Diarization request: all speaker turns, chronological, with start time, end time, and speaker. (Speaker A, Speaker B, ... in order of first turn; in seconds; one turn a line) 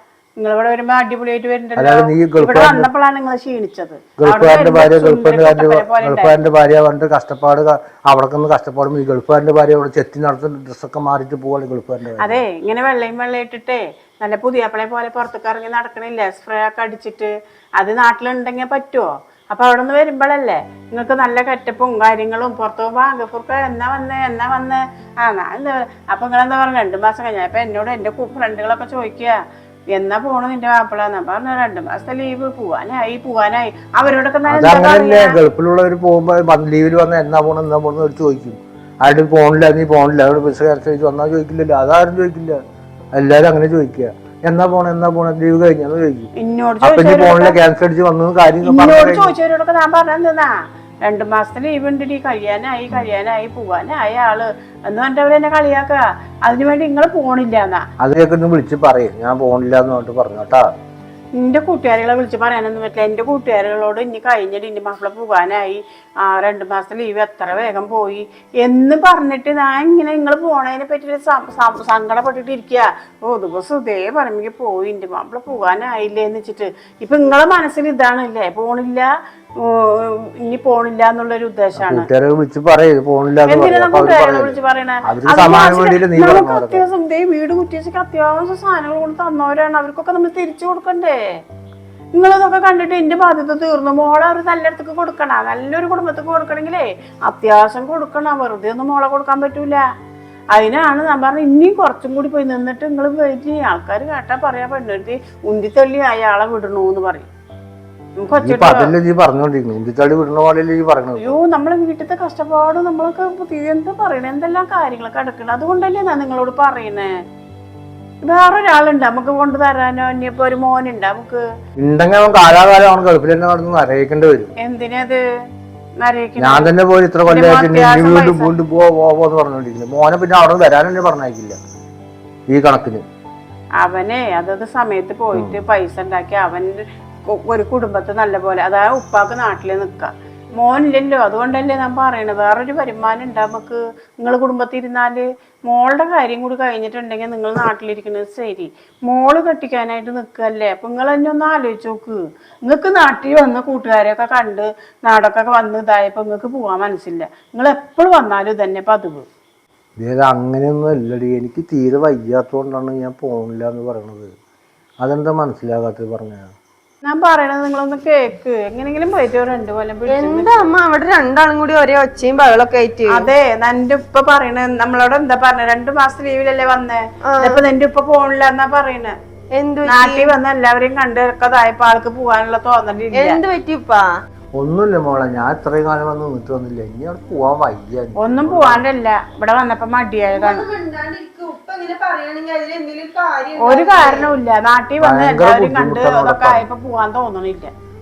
Speaker A: 0.4-6.4
Speaker B: 1.8-2.9
Speaker B: 4.2-12.4
Speaker A: 12.2-29.4
Speaker A: 29.9-35.4
Speaker B: 34.5-42.6
Speaker B: 43.1-46.3
Speaker A: 46.4-47.6
Speaker B: 46.8-49.4
Speaker A: 48.6-50.5
Speaker A: 51.1-57.8
Speaker B: 58.0-60.7
Speaker A: 61.4-79.1
Speaker A: 79.6-82.1
Speaker B: 81.8-86.8
Speaker A: 83.5-91.2
Speaker A: 92.2-99.8
Speaker A: 100.5-107.3
Speaker A: 108.2-108.9
Speaker B: 108.3-111.4
Speaker A: 111.2-117.1
Speaker A: 118.2-121.4
Speaker B: 121.8-124.5
Speaker A: 124.6-125.2
Speaker A: 126.0-126.7
Speaker B: 126.4-131.6
Speaker A: 127.3-128.5
Speaker B: 132.5-133.0
Speaker A: 133.8-159.2
Speaker B: 160.0-164.3
Speaker B: 165.0-166.5
Speaker A: 167.0-170.7
Speaker C: 170.1-173.3
Speaker A: 173.1-179.1
Speaker C: 177.3-177.6
Speaker C: 179.6-180.3
Speaker A: 179.9-183.4
Speaker C: 183.2-184.1
Speaker B: 184.6-188.8
Speaker A: 188.2-190.7
Speaker C: 190.3-194.3
Speaker A: 193.6-197.7
Speaker B: 195.0-196.6